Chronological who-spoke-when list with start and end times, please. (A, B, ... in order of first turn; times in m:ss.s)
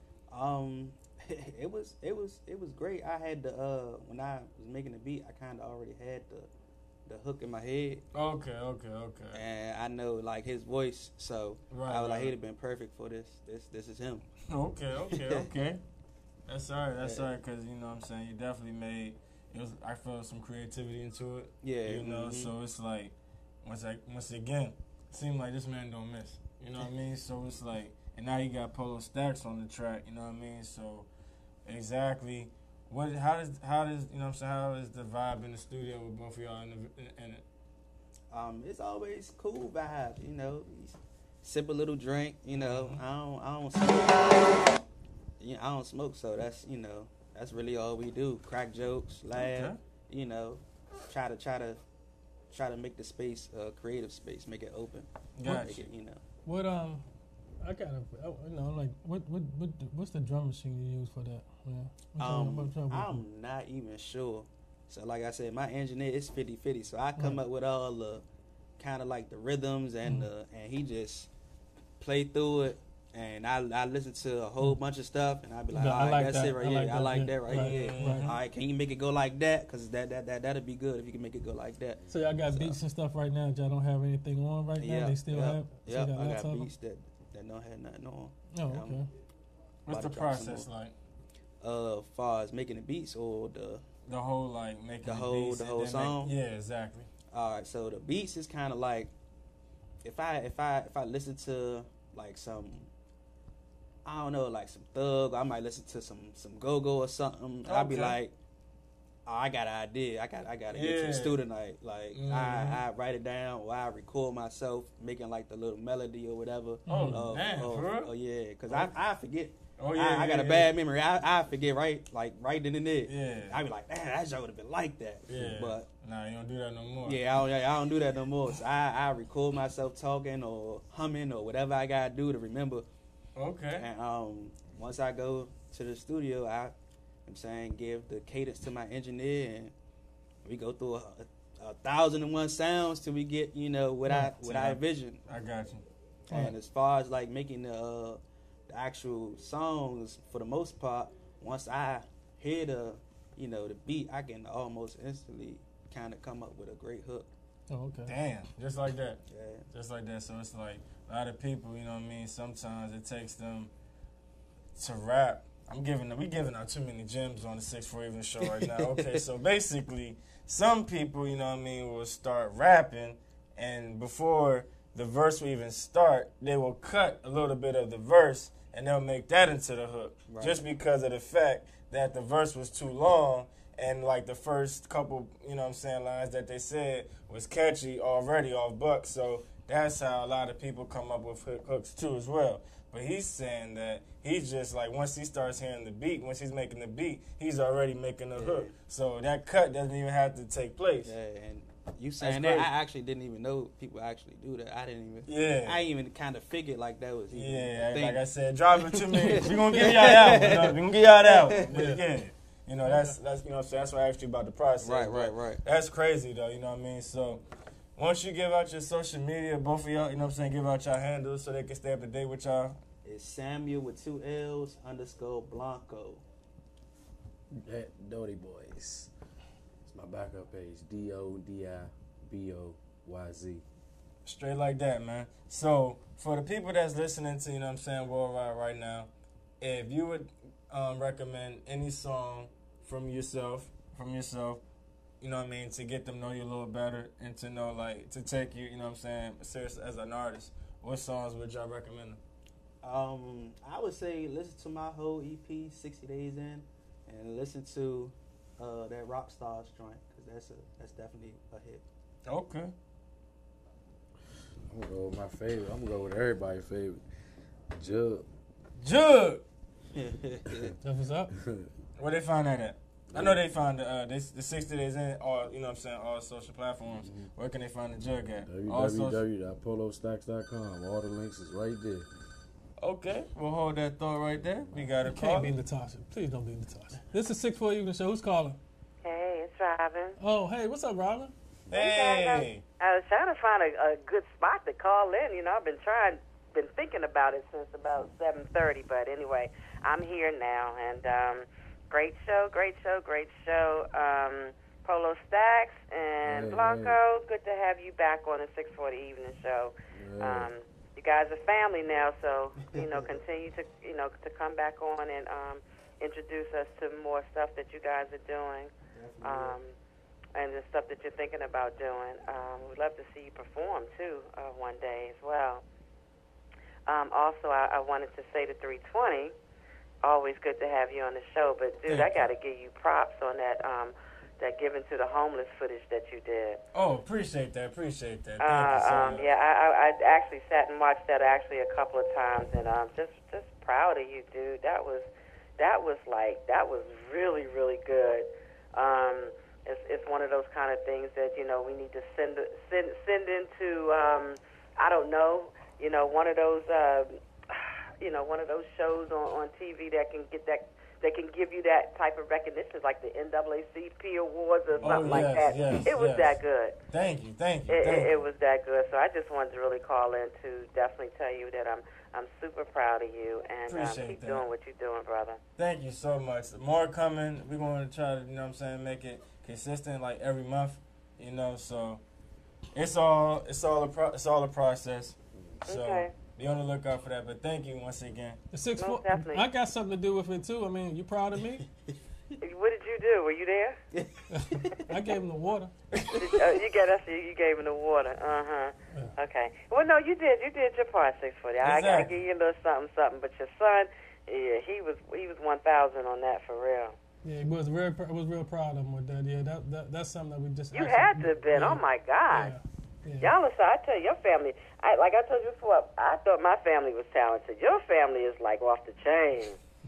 0:00.3-0:06.5 A
0:07.1-0:08.0 A
0:08.1-0:09.4 B
0:09.3-0:14.3 A
0:11.7-0:12.3 B
0:14.5-0:15.8 B
0:15.1-0:15.5 A
0:16.5-0:31.1 B
0:17.0-0:17.3 A
0:21.6-0:22.5 A
0:31.6-0:37.4 B
0:38.3-0:44.6 A
0:42.5-0:43.0 B
0:45.4-0:51.8 A
0:49.3-0:49.8 B
0:52.5-0:56.2 A
0:55.4-0:55.9 B
0:56.4-0:57.0 C
0:57.6-1:03.3 C
1:02.2-1:08.2 A
1:07.2-1:07.4 C
1:08.8-1:11.3 A
1:10.0-1:10.3 C
1:12.0-1:22.8 A
1:15.7-1:18.3 C
1:17.5-1:18.4 B
1:22.0-1:22.3 D
1:22.1-1:26.7 C
1:24.8-1:29.0 A
1:28.5-1:29.1 C
1:29.9-1:30.7 A
1:29.9-1:30.9 B
1:31.6-1:33.8 A
1:34.1-1:37.1 B
1:35.0-1:36.3 A
1:37.3-1:39.1 A
1:40.0-1:42.9 A
1:44.0-1:48.3 A
1:47.6-1:48.2 B
1:49.3-2:05.9 A
1:50.7-1:51.4 B
1:52.1-1:52.8 B
1:56.9-1:57.3 C
1:56.9-1:58.1 B
1:59.8-2:00.7 B
2:03.1-2:03.6 B
2:05.3-2:07.2 B
2:07.0-2:12.9 A
2:13.4-2:13.9 B
2:13.8-2:16.7 A
2:17.3-2:19.7 A
2:20.4-2:25.3 A
2:24.1-2:25.8 B
2:26.3-2:37.3 A
2:37.7-2:38.1 C
2:38.1-2:39.2 B
2:39.3-2:39.7 A
2:39.7-2:43.7 B
2:44.7-3:21.1 B
2:48.4-2:49.2 A
3:00.3-3:00.6 A
3:18.4-3:18.8 A
3:21.0-3:31.9 A
3:22.2-3:22.7 B
3:25.3-3:25.8 B
3:27.3-3:37.4 B
3:29.4-3:30.2 C
3:31.7-3:32.0 C
3:34.8-3:35.6 A
3:38.0-3:42.8 B
3:43.0-3:46.2 A
3:47.6-3:49.1 D
3:49.9-3:53.6 D
3:54.2-3:59.1 B
3:59.6-4:04.6 B
4:05.2-4:12.2 B
4:12.8-4:21.8 A
4:22.3-4:22.7 B
4:24.7-4:27.0 D
4:27.7-4:28.2 D
4:28.8-4:29.4 B
4:29.9-4:30.7 A
4:30.8-4:31.3 C
4:31.4-4:31.7 D
4:32.0-4:39.2 B
4:33.1-4:33.4 D
4:37.0-4:37.3 D
4:38.4-4:42.1 D
4:42.8-4:45.5 B
4:44.6-4:44.9 D
4:45.0-4:48.6 C
4:49.0-4:50.2 E
4:50.2-4:51.3 C
4:51.7-4:52.6 B
4:51.7-5:18.7 E
5:06.2-5:07.0 D
5:09.9-5:10.5 D
5:12.6-5:13.1 A
5:18.9-5:19.6 A
5:19.2-5:19.7 E
5:20.4-5:25.6 E
5:26.9-5:29.3 E
5:30.0-5:36.6 E
5:31.9-5:32.3 B
5:36.7-5:39.3 B
5:38.4-5:45.1 E
5:45.6-6:06.8 E
6:04.8-6:06.4 B
6:06.9-6:08.2 B
6:07.7-6:15.4 E
6:13.7-6:14.5 B
6:15.6-6:22.0 B
6:22.7-6:25.2 B
6:25.7-6:28.4 B
6:25.7-6:26.1 E
6:28.5-6:31.6 C
6:28.8-6:29.5 E
6:32.4-6:33.8 E
6:33.9-6:34.7 A
6:34.5-6:35.7 C
6:36.2-6:46.9 E
6:41.6-6:42.1 B
6:47.2-6:53.3 C
6:50.7-6:52.6 E
6:53.2-6:59.6 E